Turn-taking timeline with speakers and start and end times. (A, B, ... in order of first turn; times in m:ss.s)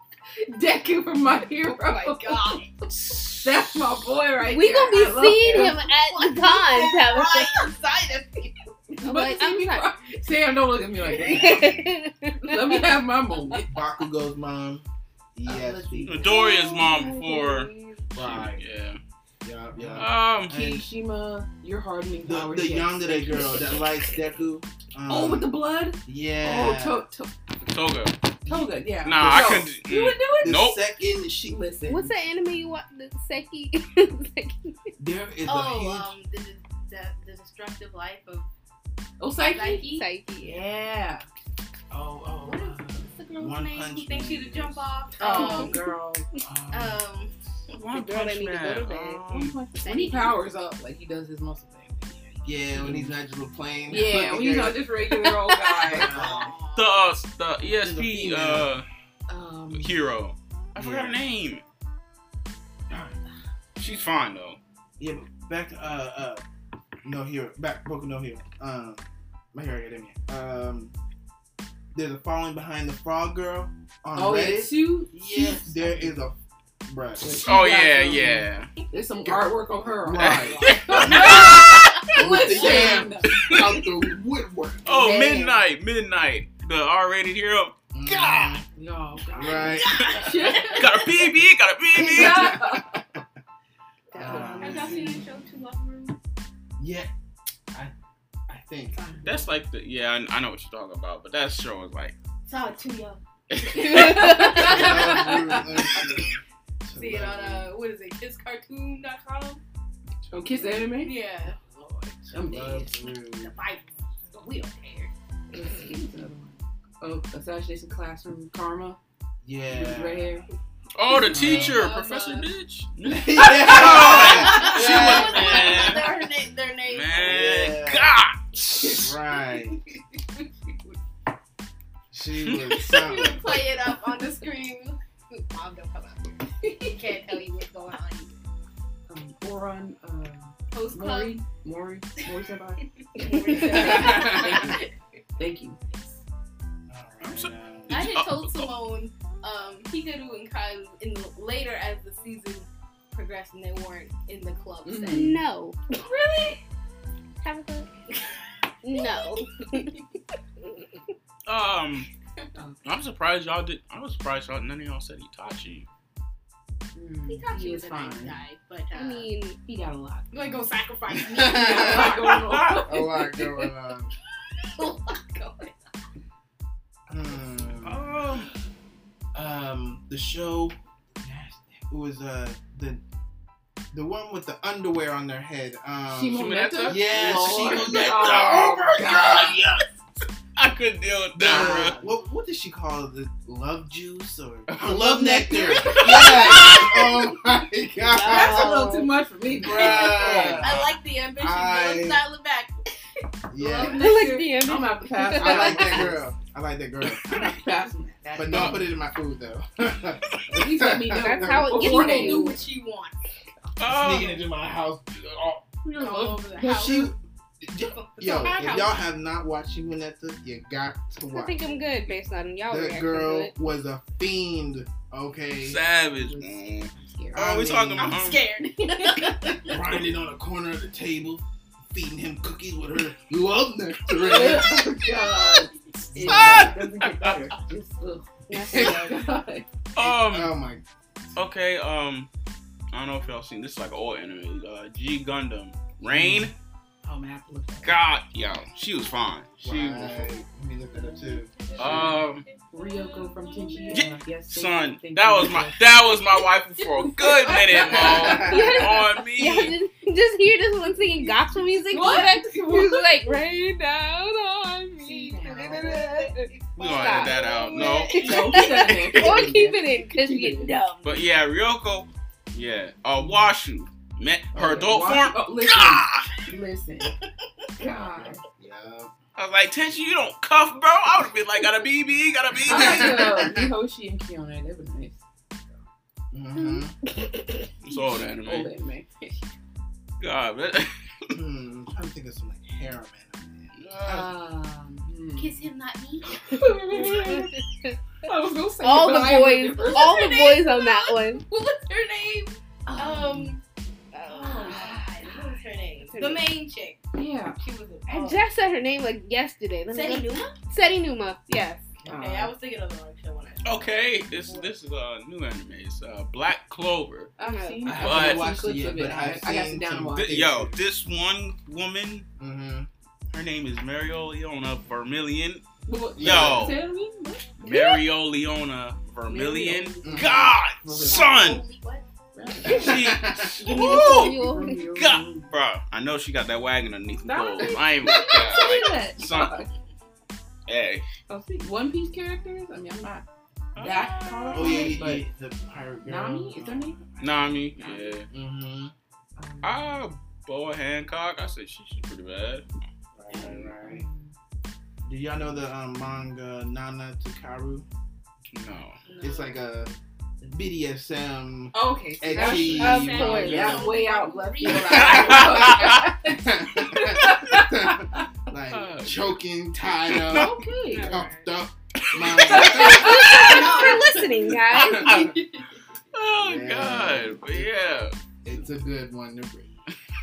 0:00.4-0:05.8 A
0:01.6-0:02.8 B
0:02.9-0:03.8 C
0:04.5-0:07.7 D
0:05.3-0:08.7 B
0:09.0-0:11.8 A
0:09.0-0:09.9 D
0:11.2-0:12.9 D
0:12.4-0:13.7 A
0:13.7-0:16.4 E
0:15.4-0:16.3 A
0:16.0-0:19.0 C
0:16.2-0:18.0 D
0:18.2-0:18.6 E
0:19.4-0:20.9 E
0:19.8-0:23.9 A
0:20.0-0:20.7 C
0:22.2-0:27.0 E
0:25.1-0:27.3 A
0:27.6-0:28.2 C
0:28.4-0:30.7 A
0:28.4-0:29.7 E
0:29.0-0:30.8 C
0:30.4-0:31.6 E
0:31.4-0:32.1 A
0:31.9-0:34.7 D
0:35.0-0:36.1 E
0:35.5-0:38.5 B
0:39.2-0:41.2 A
0:39.4-0:40.0 B
0:39.8-0:40.6 D
0:41.9-0:44.9 E
0:42.5-0:45.8 B
0:45.2-0:46.2 A
0:45.3-0:45.8 D
0:46.4-0:47.0 E
0:46.7-0:47.3 B
0:47.7-0:49.6 C
0:47.7-0:49.2 D
0:49.3-0:53.1 A
0:49.8-0:50.4 B
0:52.4-0:54.9 E
0:53.9-0:56.2 A
0:55.2-0:55.8 D
0:55.9-0:56.6 E
0:55.9-0:57.1 B
0:56.8-0:58.8 C
0:57.6-0:58.7 E
0:59.3-1:00.0 A
0:59.7-1:01.6 C
1:00.8-1:01.2 E
1:02.9-1:03.2 E
1:03.8-1:04.6 C
1:05.0-1:06.4 E
1:07.0-1:10.9 E
1:11.9-1:17.3 E
1:14.1-1:16.2 A
1:17.2-1:23.8 A
1:17.4-1:18.7 C
1:19.2-1:25.0 E
1:20.2-1:21.6 C
1:20.5-1:22.0 B
1:22.6-1:23.0 B
1:23.2-1:23.8 C
1:24.8-1:28.6 C
1:24.9-1:25.6 D
1:27.9-1:28.7 E
1:28.8-1:31.0 A
1:29.3-1:31.0 B
1:29.4-1:30.2 E
1:30.0-1:32.8 C
1:32.0-1:32.9 A
1:32.1-1:33.2 E
1:34.1-1:34.7 D
1:34.1-1:35.1 E
1:34.2-1:36.2 B
1:34.2-1:35.2 A
1:36.8-1:37.1 E
1:38.5-1:39.0 E
1:38.9-1:39.5 B
1:39.2-1:42.1 C
1:42.5-1:43.2 B
1:43.5-1:44.5 C
1:43.7-1:46.1 A
1:43.8-1:45.3 B
1:43.8-1:45.0 D
1:44.6-1:47.7 E
1:47.0-1:49.6 B
1:50.3-1:50.9 E
1:50.3-1:51.2 A
1:51.0-1:52.2 B
1:52.3-1:53.6 E
1:52.3-1:52.9 A
1:53.4-1:55.1 B
1:55.5-1:59.0 A
1:59.4-2:00.3 E
1:59.7-2:00.5 A
2:00.9-2:06.2 C
2:01.3-2:01.8 E
2:01.3-2:02.5 B
2:03.0-2:06.0 E
2:03.5-2:07.6 B
2:06.8-2:09.1 C
2:07.2-2:08.2 E
2:08.8-2:09.8 E
2:09.6-2:10.5 B
2:12.1-2:13.4 E
2:12.4-2:13.2 C
2:12.9-2:18.4 B
2:19.1-2:22.8 A
2:20.7-2:21.4 B
2:23.0-2:24.9 B
2:23.2-2:24.0 D
2:23.5-2:26.2 A
2:23.6-2:24.7 E
2:26.9-2:28.1 E
2:27.2-2:28.7 C
2:27.9-2:35.4 B
2:34.8-2:35.4 A
2:35.1-2:35.8 D
2:36.0-2:36.6 A
2:37.4-2:37.9 D
2:38.8-2:39.9 D
2:38.9-2:39.8 B
2:41.4-2:42.1 C
2:42.6-2:42.9 A
2:42.8-2:45.9 C
2:47.0-2:48.4 A
2:47.3-2:49.3 B
2:49.0-2:50.0 D
2:49.7-2:50.2 A
2:50.3-2:52.4 B
2:51.1-2:52.3 E
2:51.4-2:53.5 A
2:52.3-2:52.9 C
2:52.8-2:54.1 E
2:54.6-2:55.7 B
2:57.1-2:58.0 E
2:57.8-2:58.5 C
2:59.3-3:03.0 E
3:03.9-3:09.6 E
3:06.1-3:09.6 A
3:06.3-3:09.8 C
3:10.6-3:12.0 C
3:11.4-3:19.0 E
3:11.6-3:11.9 A
3:14.7-3:16.8 A
3:15.8-3:16.9 C
3:18.1-3:19.0 B
3:18.2-3:19.0 D
3:18.2-3:20.6 A
3:19.6-3:20.8 E
3:19.7-3:22.9 B
3:20.3-3:20.9 C
3:21.4-3:22.2 E
3:23.5-3:24.1 E
3:23.6-3:26.3 A
3:23.8-3:26.1 D
3:25.4-3:27.6 E
3:27.2-3:28.8 A
3:28.4-3:31.8 E
3:28.4-3:28.9 C
3:30.5-3:32.6 A
3:31.1-3:32.6 D
3:31.7-3:33.2 B
3:33.8-3:34.4 C
3:33.8-3:35.7 E
3:35.8-3:37.0 A
3:36.0-3:37.1 B
3:36.6-3:41.8 E
3:37.8-3:38.9 B
3:38.4-3:38.9 A
3:41.3-3:43.5 D
3:42.7-3:45.8 E
3:45.6-3:48.4 C
3:46.0-3:47.6 A
3:47.3-3:48.2 E
3:48.0-3:49.8 B
3:48.9-3:49.6 A
3:49.7-3:54.9 E
3:54.1-3:59.7 A
3:55.1-3:55.6 B
3:56.1-3:56.8 E
3:56.3-3:57.4 C
3:58.5-3:59.2 D
3:58.7-3:59.1 E
4:00.0-4:00.5 C
4:00.0-4:00.8 E
4:01.4-4:02.3 C
4:02.9-4:06.5 C
4:06.1-4:06.5 E
4:07.0-4:08.0 A
4:07.8-4:10.3 C
4:09.6-4:12.2 E
4:11.0-4:14.0 B
4:11.8-4:12.4 C
4:12.7-4:16.2 A
4:13.9-4:19.8 C
4:16.8-4:17.9 B
4:17.0-4:19.2 A
4:17.9-4:18.7 E
4:18.3-4:31.3 D
4:21.9-4:23.4 A
4:25.0-4:26.0 A
4:25.6-4:28.6 B
4:26.8-4:29.5 C
4:28.1-4:30.8 A
4:31.0-4:36.4 C
4:33.2-4:33.5 A
4:34.5-4:37.2 A
4:37.8-4:38.4 A
4:37.9-4:39.1 E
4:39.4-4:43.4 C
4:42.6-4:43.7 E
4:42.7-4:45.2 A
4:46.3-4:47.0 E
4:47.2-4:47.5 D
4:47.8-4:48.7 C
4:47.9-4:49.3 A
4:50.2-4:51.4 C
4:51.3-4:54.3 E
4:53.8-4:54.2 C
4:54.0-4:55.7 A
4:55.4-4:56.7 B
4:56.3-4:57.6 A
4:57.0-4:58.0 D
4:58.2-5:00.2 A
4:58.8-5:01.4 D
4:59.8-5:03.6 B
5:02.9-5:03.6 A
5:04.1-5:06.6 D
5:04.3-5:07.0 B
5:04.4-5:05.1 A
5:07.1-5:07.6 A
5:07.6-5:08.5 B
5:08.1-5:11.8 D
5:09.9-5:10.6 B
5:12.0-5:12.5 A
5:12.1-5:14.8 B
5:13.6-5:17.3 C
5:17.4-5:18.0 D
5:17.4-5:20.5 A
5:17.8-5:20.8 E
5:17.9-5:18.5 C
5:20.1-5:22.3 C
5:22.4-5:22.9 E
5:23.3-5:25.6 C
5:25.9-5:28.0 A
5:26.2-5:26.8 E
5:26.2-5:26.8 C
5:27.6-5:31.7 C
5:29.3-5:30.3 A
5:29.6-5:32.0 B
5:30.0-5:30.3 E
5:30.8-5:31.3 A
5:32.3-5:33.0 A
5:32.6-5:33.7 E
5:32.6-5:39.6 C
5:33.6-5:34.8 D
5:33.7-5:35.5 A
5:37.2-5:39.7 A
5:40.7-5:41.1 C
5:41.3-5:43.2 A
5:43.8-5:44.9 C
5:43.8-5:45.2 A
5:44.5-5:47.6 E
5:46.0-5:47.0 A
5:47.2-5:48.3 C
5:47.8-5:48.2 A
5:48.3-5:48.9 E
5:49.4-5:50.0 A
5:49.6-5:52.6 C
5:53.2-5:54.0 E
5:53.3-5:54.3 A
5:55.1-5:57.9 E
5:58.5-5:59.0 C
5:59.0-5:59.6 B
5:59.2-6:03.9 E
6:01.7-6:08.3 A
6:02.4-6:03.8 D
6:02.4-6:05.9 B
6:04.6-6:13.2 E
6:05.0-6:06.2 C
6:08.7-6:09.4 C
6:10.1-6:10.5 C
6:10.1-6:11.3 A
6:10.9-6:11.5 D
6:12.0-6:13.8 C
6:12.4-6:13.8 A
6:12.5-6:15.3 D
6:12.6-6:14.3 B
6:14.9-6:15.2 E
6:14.9-6:15.4 C
6:15.0-6:15.7 B
6:16.1-6:18.1 C
6:16.4-6:17.7 E
6:18.4-6:19.8 E